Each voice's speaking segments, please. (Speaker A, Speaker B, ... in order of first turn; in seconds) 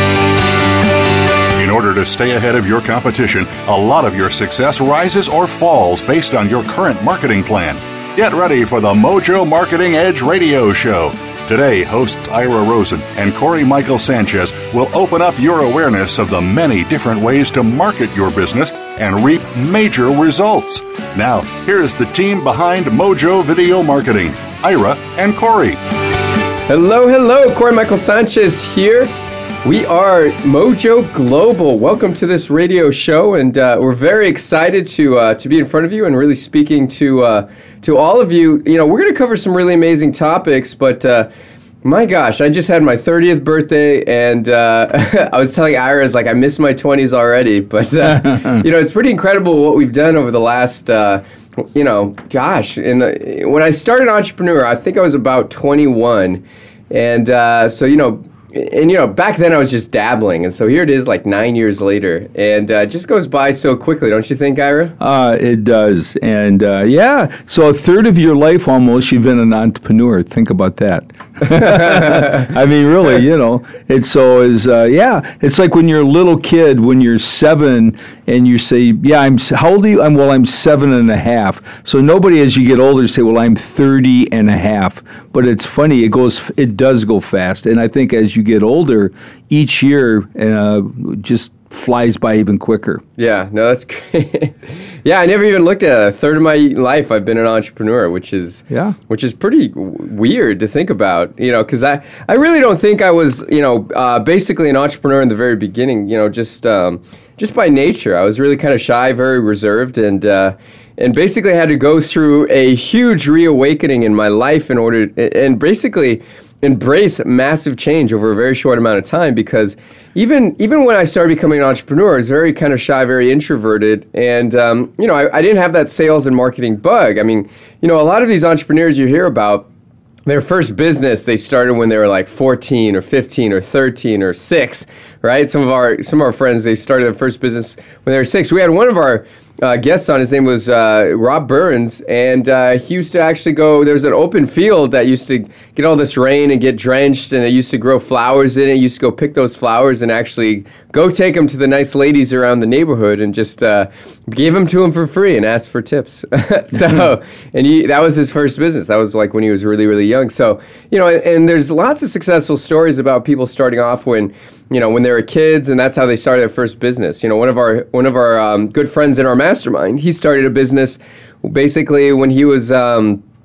Speaker A: 1.6-25.8
Speaker B: 26.7-29.1, 29.6-41.3, 41.8-64.9, 71.9-72.3, 93.2-129.7, 130.3-173.2
Speaker C: 48.1-48.6, 65.0-93.0, 98.7-99.0, 156.8-157.0